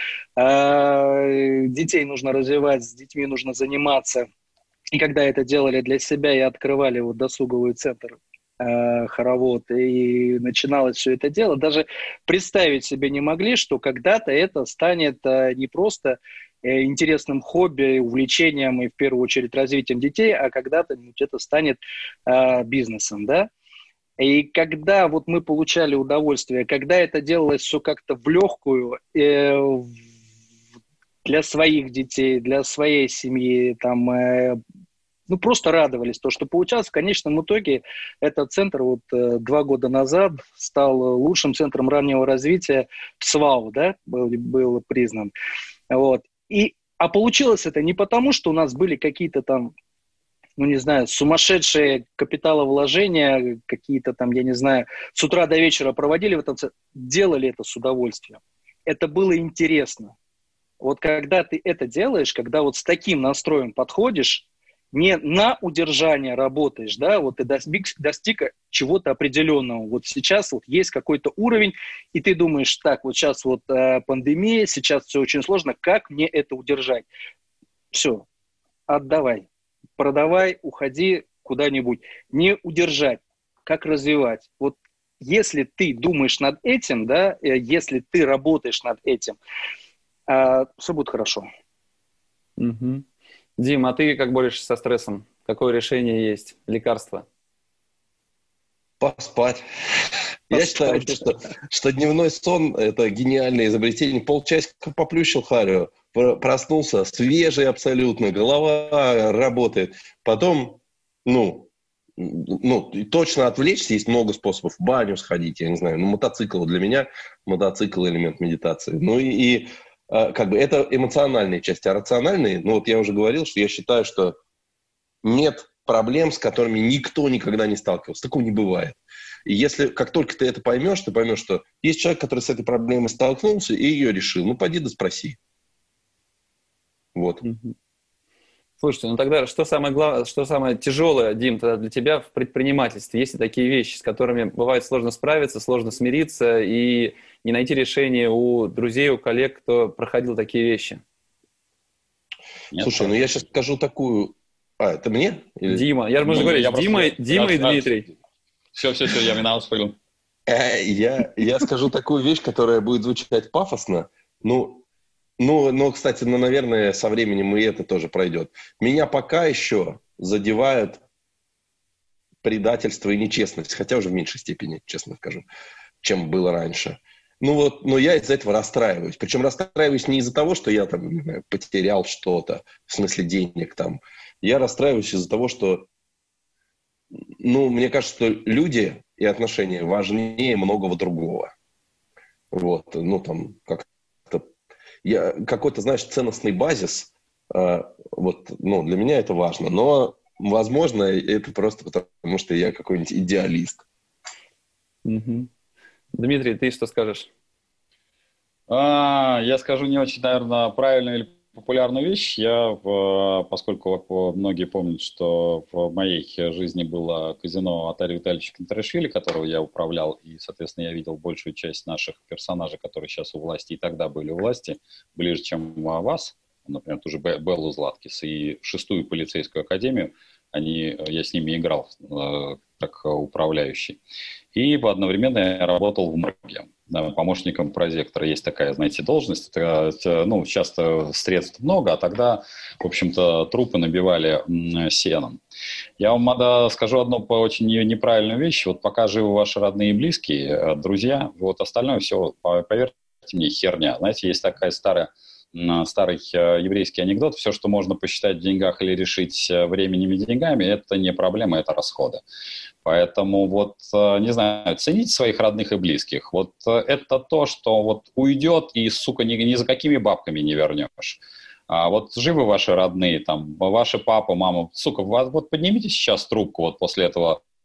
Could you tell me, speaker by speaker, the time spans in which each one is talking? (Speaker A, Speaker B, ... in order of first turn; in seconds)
Speaker A: 0.4-4.3, 4.9-23.5, 24.2-29.9, 31.2-34.6, 35.3-45.3, 45.9-49.7, 50.6-60.1, 60.8-77.1, 77.9-78.2, 78.9-79.5, 80.0-89.4, 90.3-91.5, 100.5-101.3
Speaker B: 92.6-93.0, 93.6-97.3, 137.4-137.8, 138.8-151.0, 155.7-158.1, 205.1-205.5, 206.2-207.3
Speaker C: 99.0-99.6, 100.5-124.4, 125.2-135.4, 137.2-137.4, 152.8-155.8, 160.5-164.8, 165.4-171.0, 172.4-175.4, 176.0-185.9, 187.4-191.5, 192.5-194.5, 195.0-203.8
Speaker D: 152.7-153.2, 156.2-157.9, 158.8-160.0, 208.7-234.0, 234.6-245.4, 246.0-262.2, 262.9-277.4